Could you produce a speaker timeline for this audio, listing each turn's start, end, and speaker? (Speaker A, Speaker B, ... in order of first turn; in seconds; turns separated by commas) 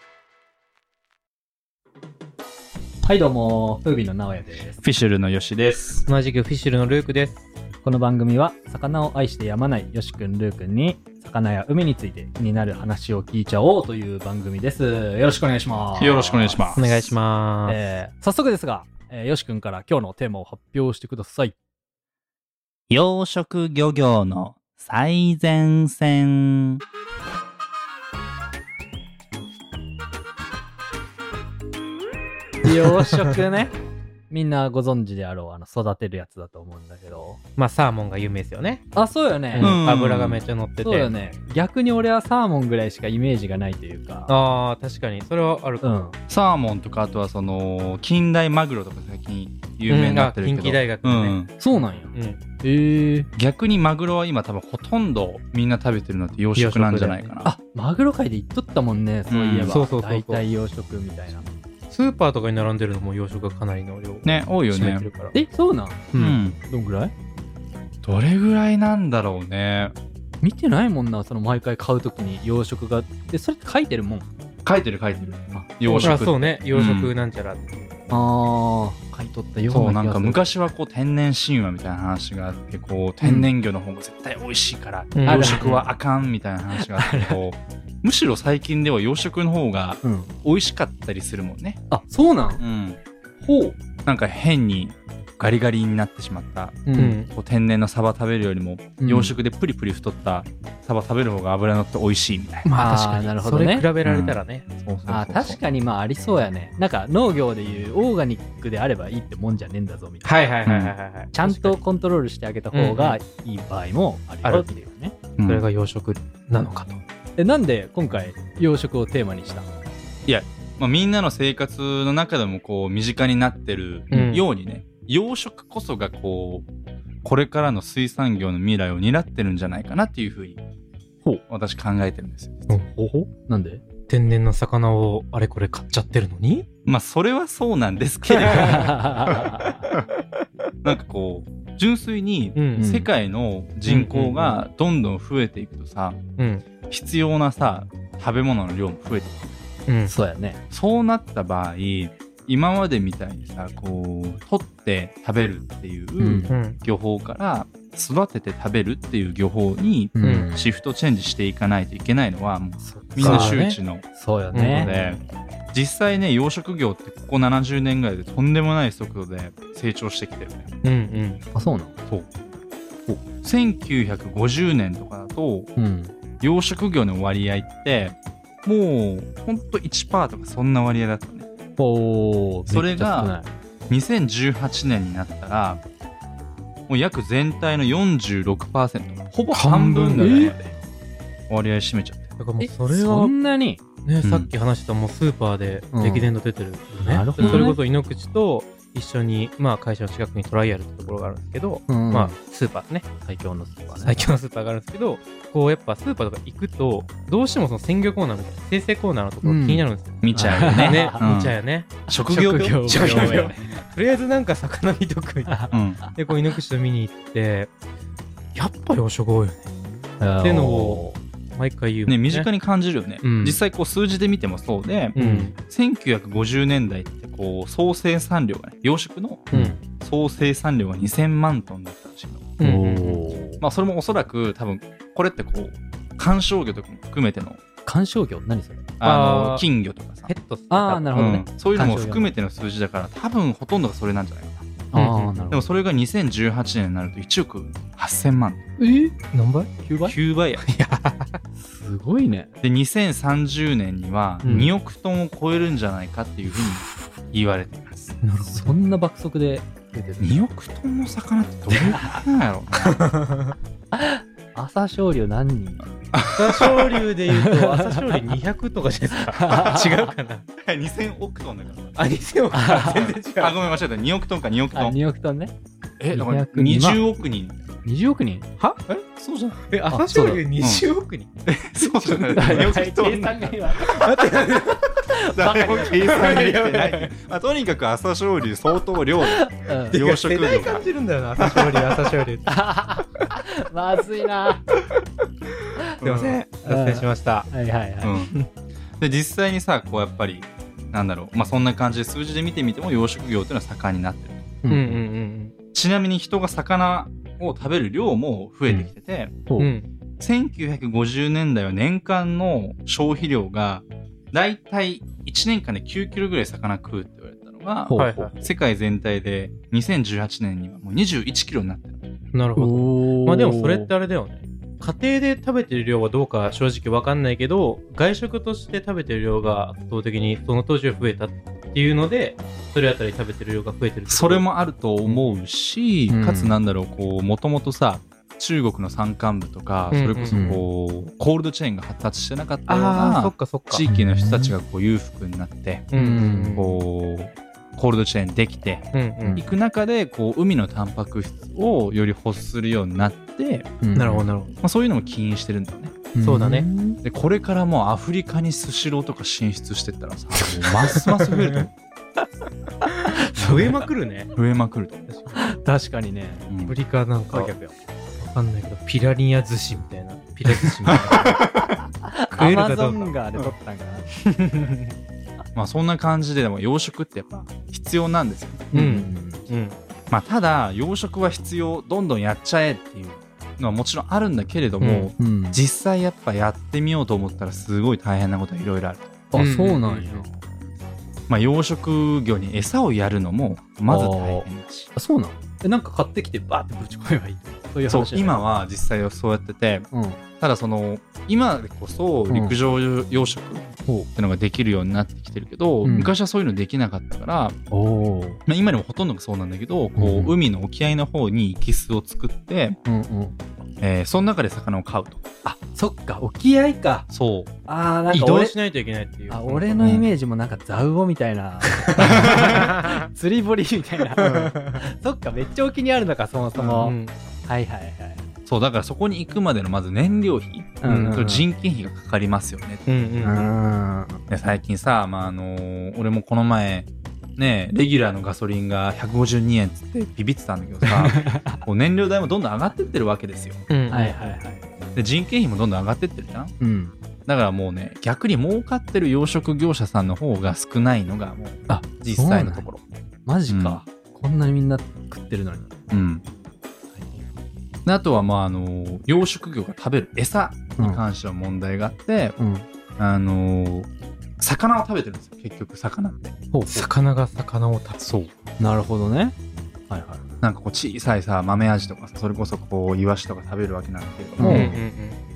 Speaker A: 3.0-4.8, Speaker B: 4.8-6.0, Speaker C: 6.1-7.5, Speaker A: 7.8-17.1, Speaker B: 16.0-17.1, Speaker C: 16.8-17.8, Speaker A: 17.7-21.6, Speaker B: 22.9-26.8, Speaker A: 32.6-33.7, Speaker A: 34.3-37.4, Speaker C: 37.6-38.8, Speaker A: 39.0-39.8, Speaker C: 39.5-41.1, Speaker B: 39.6-40.4, Speaker A: 40.8-44.3, Speaker C: 44.3-46.0, Speaker A: 45.8-46.2, Speaker B: 46.3-51.5, Speaker C: 49.9-51.5, Speaker A: 51.6-53.3, Speaker C: 52.1-52.4, Speaker B: 53.4-57.5, Speaker C: 56.6-57.4, Speaker A: 57.4-61.5, Speaker B: 59.3-59.8, Speaker C: 59.7-60.4, Speaker C: 61.9-65.4, Speaker B: 64.2-65.1, Speaker A: 65.3-67.1, Speaker C: 66.1-66.4, Speaker B: 66.2-66.6, Speaker B: 68.0-69.9, Speaker A: 70.4-74.3, Speaker B: 74.6-77.1, Speaker A: 75.6-76.2, Speaker C: 76.0-77.9, Speaker A: 78.1-80.5, Speaker B: 79.7-91.8, Speaker A: 83.2-83.5, Speaker C: 85.2-85.9, Speaker A: 85.3-85.8, Speaker A: 86.7-87.4, Speaker A: 90.0-90.3, Speaker A: 91.9-92.6, Speaker B: 92.6-93.0, Speaker A: 93.4-93.8, Speaker B: 94.0-102.7, Speaker A: 96.9-97.2, Speaker C: 97.0-97.3, Speaker A: 99.0-99.3, Speaker C: 102.7-104.7, Speaker A: 102.8-103.9, Speaker B: 104.0-105.6, Speaker A: 105.1-110.3, Speaker C: 110.2-111.8, Speaker B: 110.7-111.0, Speaker A: 111.3-115.2, Speaker C: 112.7-113.2, Speaker B: 115.4-115.7, Speaker C: 115.4-117.0, Speaker A: 117.4-119.7, Speaker B: 120.3-126.7, Speaker C: 124.1-124.4, Speaker B: 127.2-130.6, Speaker B: 131.5-132.8, Speaker C: 132.7-133.3, Speaker A: 133.5-133.8, Speaker C: 134.1-136.7, Speaker B: 136.8-140.1, Speaker A: 138.6-139.9, Speaker B: 140.8-146.2, Speaker C: 142.6-142.9, Speaker A: 142.8-143.1, Speaker C: 143.9-144.6, Speaker C: 146.4-146.7, Speaker B: 146.9-149.5, Speaker C: 149.9-150.1, Speaker A: 150.1-150.6, Speaker B: 150.7-164.1, Speaker A: 156.2-156.5, Speaker C: 156.5-156.8, Speaker A: 160.2-160.7, Speaker C: 160.2-160.5, Speaker A: 162.8-163.6, Speaker C: 163.2-163.8, Speaker A: 164.1-164.9, Speaker C: 164.5-165.0, Speaker B: 164.7-170.7, Speaker C: 170.8-171.4, Speaker A: 171.6-171.9, Speaker B: 172.1-172.3, Speaker B: 173.1-175.7, Speaker A: 175.8-176.1, Speaker B: 176.4-181.5, Speaker A: 181.8-183.5, Speaker B: 182.7-183.3, Speaker B: 183.9-185.8, Speaker B: 186.9-190.7, Speaker A: 189.5-190.6, Speaker B: 191.5-192.3, Speaker C: 192.4-193.3, Speaker A: 192.6-193.8, Speaker C: 194.0-203.1, Speaker B: 194.2-194.5, Speaker A: 195.9-196.3, Speaker A: 197.0-197.8, Speaker B: 197.4-197.8, Speaker A: 201.9-202.4, Speaker A: 203.2-204.2, Speaker C: 203.9-217.7, Speaker A: 209.4-211.3, Speaker B: 210.2-211.6, Speaker B: 212.1-213.5, Speaker A: 212.1-213.8, Speaker B: 215.7-216.1, Speaker C: 218.6-219.7, Speaker A: 220.2-221.2, Speaker C: 220.4-221.0, Speaker C: 221.6-222.5, Speaker B: 222.1-232.5, Speaker C: 223.2-223.6, Speaker A: 225.2-225.5, Speaker C: 225.2-225.6, Speaker C: 229.5-229.8, Speaker A: 229.5-229.8, Speaker C: 232.6-233.2, Speaker A: 232.6-233.6, Speaker B: 233.6-237.6, Speaker A: 237.9-238.9, Speaker B: 239.0-240.3, Speaker C: 239.0-239.7, Speaker C: 240.3-241.3, Speaker A: 240.7-242.3, Speaker B: 241.1-244.8, Speaker A: 244.9-245.6, Speaker C: 244.9-245.3, Speaker B: 245.5-248.6, Speaker A: 248.8-249.2, Speaker C: 249.2-249.7, Speaker A: 249.8-250.2, Speaker B: 250.1-250.6, Speaker C: 250.6-251.4, Speaker A: 251.6-252.5, Speaker B: 252.6-258.2, Speaker C: 254.4-254.7, Speaker C: 258.2-258.7, Speaker A: 258.5-260.5, Speaker B: 260.2-263.1, Speaker C: 262.8-263.6, Speaker A: 263.9-265.9, Speaker B: 266.1-267.1, Speaker C: 266.3-270.4, Speaker A: 267.3-268.4, Speaker A: 269.4-270.1, Speaker B: 270.6-272.0, Speaker C: 272.0-273.6, Speaker A: 272.5-273.2, Speaker B: 272.9-275.0, Speaker A: 274.7-275.5, Speaker B: 276.0-277.6, Speaker A: 276.1-277.1, Speaker A: 277.9-278.5, Speaker C: 278.6-278.9, Speaker B: 278.9-279.6, Speaker C: 279.7-282.7, Speaker A: 279.9-280.5, Speaker B: 280.6-280.9, Speaker B: 281.5-283.4, Speaker A: 282.4-286.1, Speaker C: 283.8-285.0, Speaker B: 285.2-290.9, Speaker C: 285.8-287.1, Speaker A: 289.2-290.0, Speaker C: 289.9-292.5, Speaker B: 291.4-291.9, Speaker A: 292.5-294.6, Speaker C: 295.8-297.5, Speaker B: 296.0-296.4, Speaker A: 296.6-298.1, Speaker B: 298.0-298.4, Speaker B: 299.0-304.6, Speaker A: 304.6-305.0, Speaker C: 304.7-305.6, Speaker B: 305.7-309.4, Speaker A: 309.5-309.7, Speaker C: 309.6-309.9, Speaker B: 310.2-322.0, Speaker C: 318.0-318.4, Speaker C: 322.3-334.5, Speaker A: 322.6-323.9, Speaker B: 334.1-345.9, Speaker C: 335.1-335.3, Speaker A: 336.1-336.6, Speaker C: 339.9-340.5, Speaker A: 340.3-340.6, Speaker C: 342.7-343.9, Speaker A: 343.9-344.6, Speaker C: 345.9-346.8, Speaker A: 345.9-346.6, Speaker B: 346.6-353.7, Speaker C: 348.9-349.4, Speaker A: 353.8-354.3, Speaker C: 353.9-354.6, Speaker B: 354.6-356.0, Speaker A: 356.1-357.0, Speaker C: 356.2-356.7, Speaker B: 357.0-361.7, Speaker C: 361.2-361.7, Speaker A: 363.1-363.7, Speaker C: 363.2-364.3, Speaker B: 363.4-363.8, Speaker B: 364.3-365.1, Speaker C: 365.1-365.4, Speaker A: 365.3-366.5, Speaker B: 366.5-366.8, Speaker C: 366.7-367.6, Speaker A: 367.3-367.7, Speaker C: 368.2-371.5, Speaker B: 370.9-371.7, Speaker A: 372.0-374.1, Speaker C: 372.3-373.1, Speaker C: 374.3-374.9, Speaker B: 375.6-378.7, Speaker C: 378.7-379.8, Speaker A: 378.7-379.4, Speaker B: 380.1-389.2, Speaker C: 384.8-385.1, Speaker A: 385.2-385.6, Speaker A: 389.3-390.3, Speaker C: 389.4-390.3, Speaker B: 391.3-394.9, Speaker A: 393.9-398.4, Speaker B: 397.9-399.9, Speaker A: 399.9-400.2, Speaker B: 400.4-407.6, Speaker A: 402.3-402.6, Speaker A: 405.8-406.1, Speaker A: 407.7-408.4, Speaker B: 408.5-412.8, Speaker A: 410.0-410.3, Speaker A: 412.9-413.4, Speaker B: 413.8-415.2, Speaker A: 415.4-417.1, Speaker B: 417.1-417.5, Speaker A: 417.7-418.6, Speaker C: 418.1-419.9, Speaker A: 419.3-428.2, Speaker B: 419.8-420.1, Speaker C: 421.8-423.1, Speaker B: 422.0-422.6, Speaker C: 424.2-424.8, Speaker B: 426.6-426.9, Speaker C: 426.6-427.1, Speaker B: 428.5-432.8, Speaker A: 430.8-431.5, Speaker C: 430.9-431.1, Speaker C: 432.9-433.5, Speaker A: 433.2-434.2, Speaker B: 434.3-443.6, Speaker A: 441.0-441.6, Speaker C: 443.7-444.1, Speaker A: 443.9-444.6, Speaker B: 444.9-446.5, Speaker A: 446.6-446.9, Speaker B: 447.3-452.8, Speaker A: 451.7-452.7, Speaker A: 453.3-455.8, Speaker B: 453.5-453.8, Speaker B: 455.9-456.2, Speaker A: 457.0-457.2, Speaker B: 457.9-462.4, Speaker A: 462.4-462.7, Speaker B: 463.0-463.9, Speaker B: 464.4-466.4, Speaker A: 466.5-466.9, Speaker C: 466.7-468.0, Speaker B: 468.0-468.3, Speaker A: 468.6-469.4, Speaker A: 469.9-470.2, Speaker B: 470.4-474.7, Speaker A: 474.4-474.8, Speaker C: 474.4-475.2